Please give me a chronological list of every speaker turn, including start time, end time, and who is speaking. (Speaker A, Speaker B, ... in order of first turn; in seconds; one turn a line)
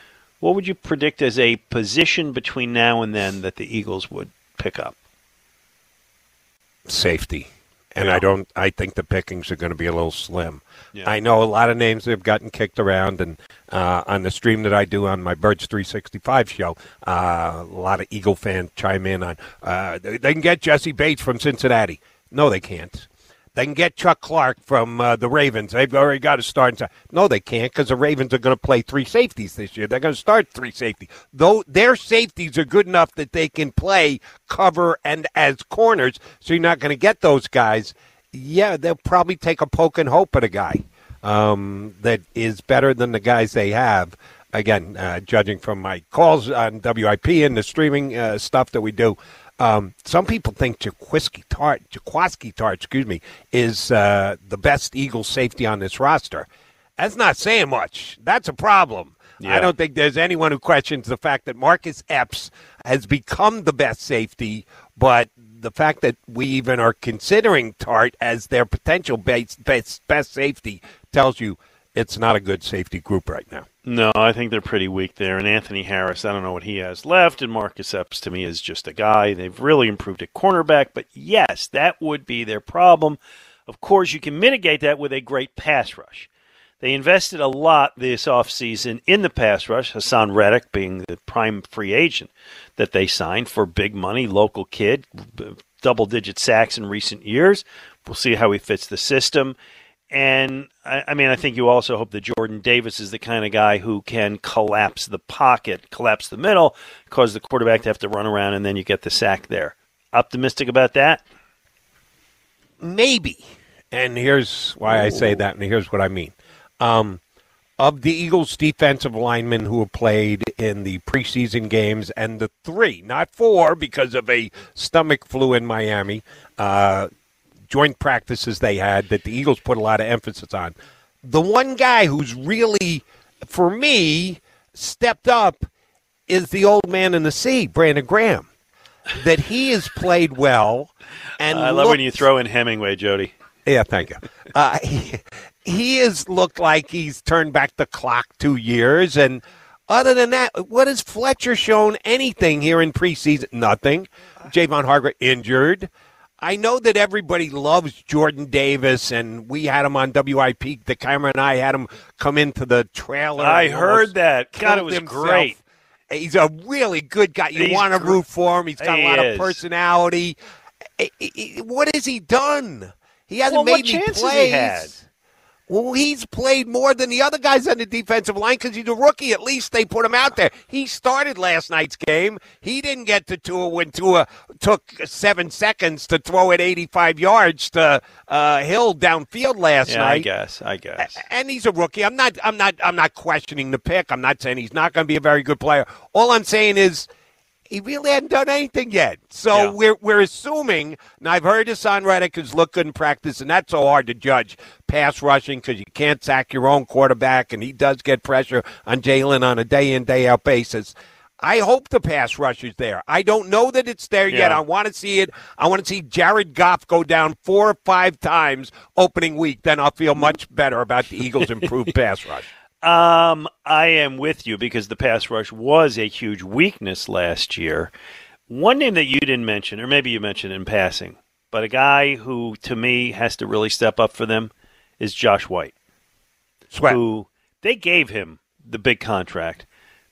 Speaker A: 0.4-4.9
Speaker B: 6.9-73.7
Speaker A: 59.4-59.7
Speaker A: 73.8-86.3
Speaker A: 86.8-99.5
Speaker A: 100.1-111.2
Speaker B: 112.8-117.2
Speaker A: 114.9-115.3
Speaker B: 117.8-127.1
Speaker B: 127.7-135.7
Speaker B: 136.3-138.5
Speaker B: 139.1-142.2
Speaker A: 141.5-143.3
Speaker B: 143.7-155.9
Speaker B: 156.4-170.4
Speaker A: 163.4-165.6
Speaker A: 167.5-168.2
Speaker A: 168.8-169.6
Speaker B: 171.0-174.9
Speaker A: 173.5-174.9
Speaker B: 175.7-190.2
Speaker A: 189.8-191.2
Speaker B: 191.0-197.1
Speaker B: 197.7-222.5
Speaker A: 214.3-214.6
Speaker A: 221.4-221.7
Speaker A: 222.8-227.9
Speaker A: 228.5-235.7
Speaker B: 236.7-237.0
Speaker A: 236.8-239.7